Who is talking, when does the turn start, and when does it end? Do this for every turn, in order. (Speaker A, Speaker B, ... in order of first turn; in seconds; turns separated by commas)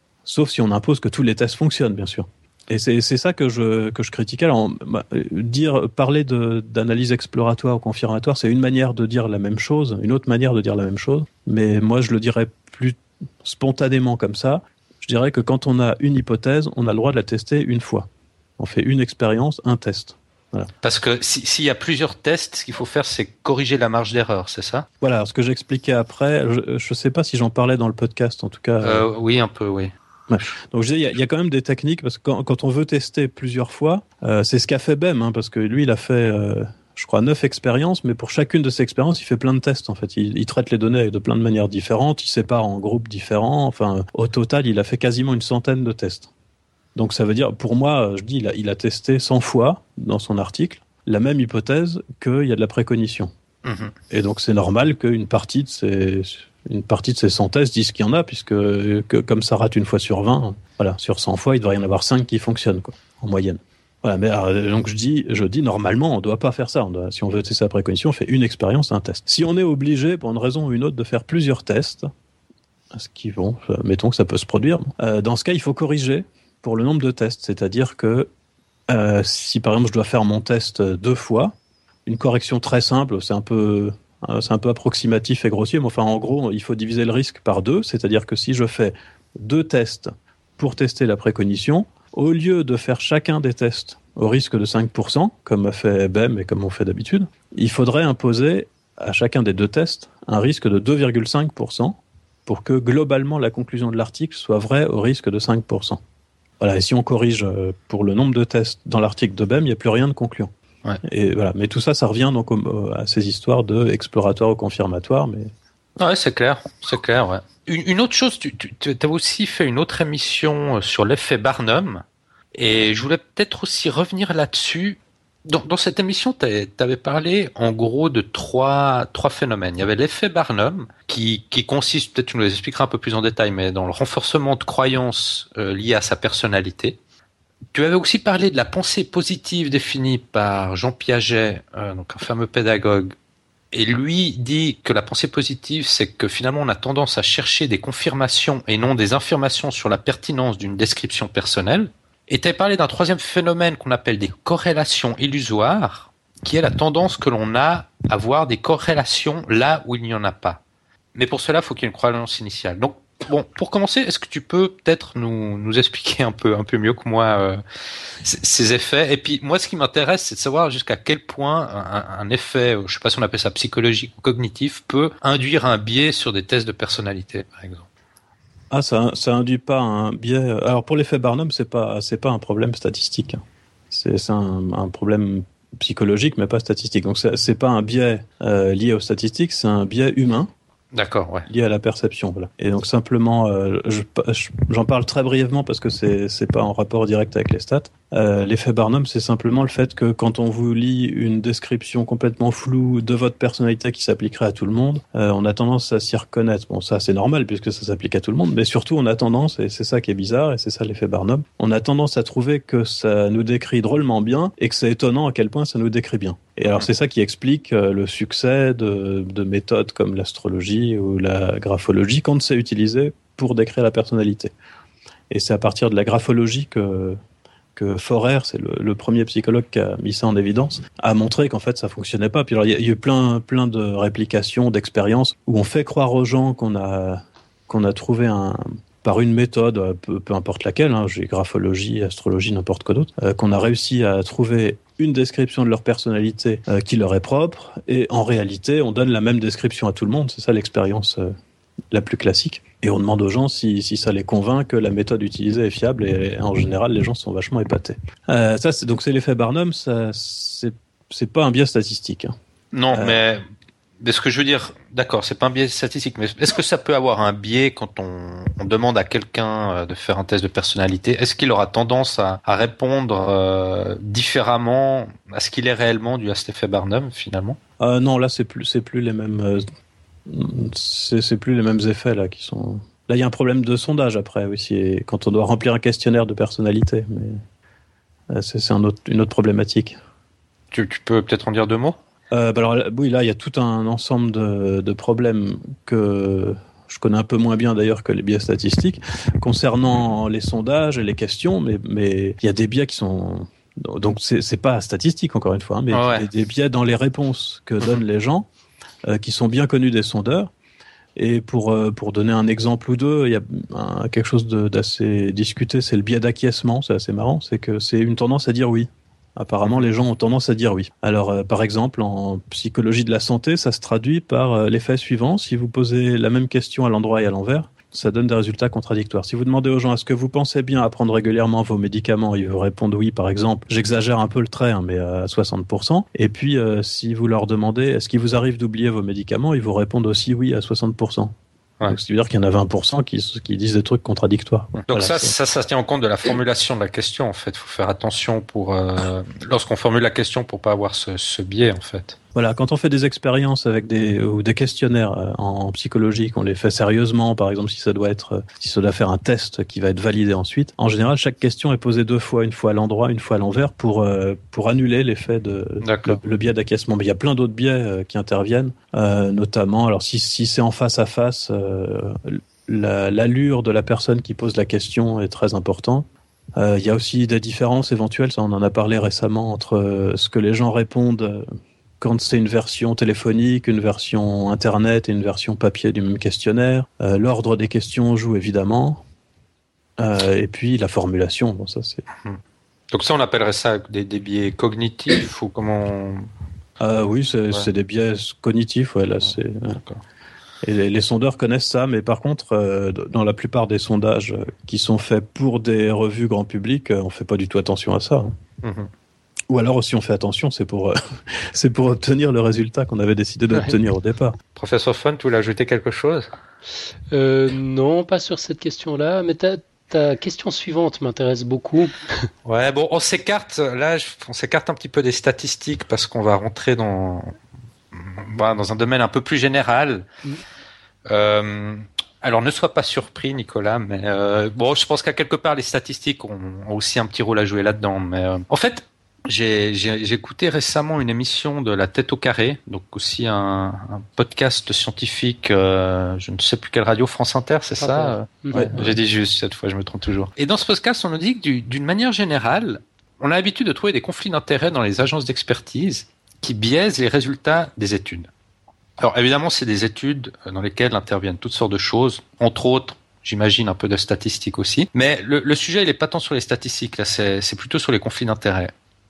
Speaker A: 0.2-20.7, Speaker B: 20.8-24.9, Speaker A: 25.0-29.1, Speaker B: 28.8-29.9, Speaker A: 30.3-46.3, Speaker A: 47.0-53.3, Speaker B: 53.6-53.9, Speaker A: 54.1-72.1, Speaker A: 72.9-78.3, Speaker A: 78.9-81.5, Speaker A: 82.1-106.0, Speaker A: 106.6-110.5, Speaker A: 111.0-115.5, Speaker B: 116.0-122.0, Speaker B: 122.5-137.0, Speaker B: 137.7-143.2, Speaker B: 143.7-160.6, Speaker B: 161.2-167.6, Speaker B: 168.2-177.9, Speaker A: 178.7-190.5, Speaker B: 190.9-191.5, Speaker A: 191.5-224.5, Speaker A: 225.3-227.2, Speaker A: 227.8-251.3, Speaker A: 251.9-262.3, Speaker B: 262.7-263.4, Speaker A: 262.9-263.2, Speaker B: 264.0-277.6, Speaker A: 277.8-279.6, Speaker A: 280.3-287.4, Speaker A: 288.3-290.0, Speaker B: 290.7-292.0, Speaker A: 292.3-308.5, Speaker B: 305.9-306.3, Speaker A: 309.1-310.5, Speaker A: 311.2-341.3, Speaker A: 341.9-345.3, Speaker B: 344.8-352.2, Speaker A: 352.4-381.4, Speaker B: 365.8-366.2, Speaker A: 382.0-389.0, Speaker A: 390.0-392.1, Speaker B: 392.9-396.3, Speaker A: 396.8-399.8, Speaker A: 400.6-408.3, Speaker B: 408.6-408.9, Speaker A: 409.5-414.4, Speaker B: 414.6-416.3, Speaker C: 417.1-421.9, Speaker B: 422.4-427.3, Speaker B: 427.9-430.1, Speaker B: 431.1-458.3, Speaker C: 447.8-448.9, Speaker A: 448.5-448.9, Speaker B: 459.0-468.7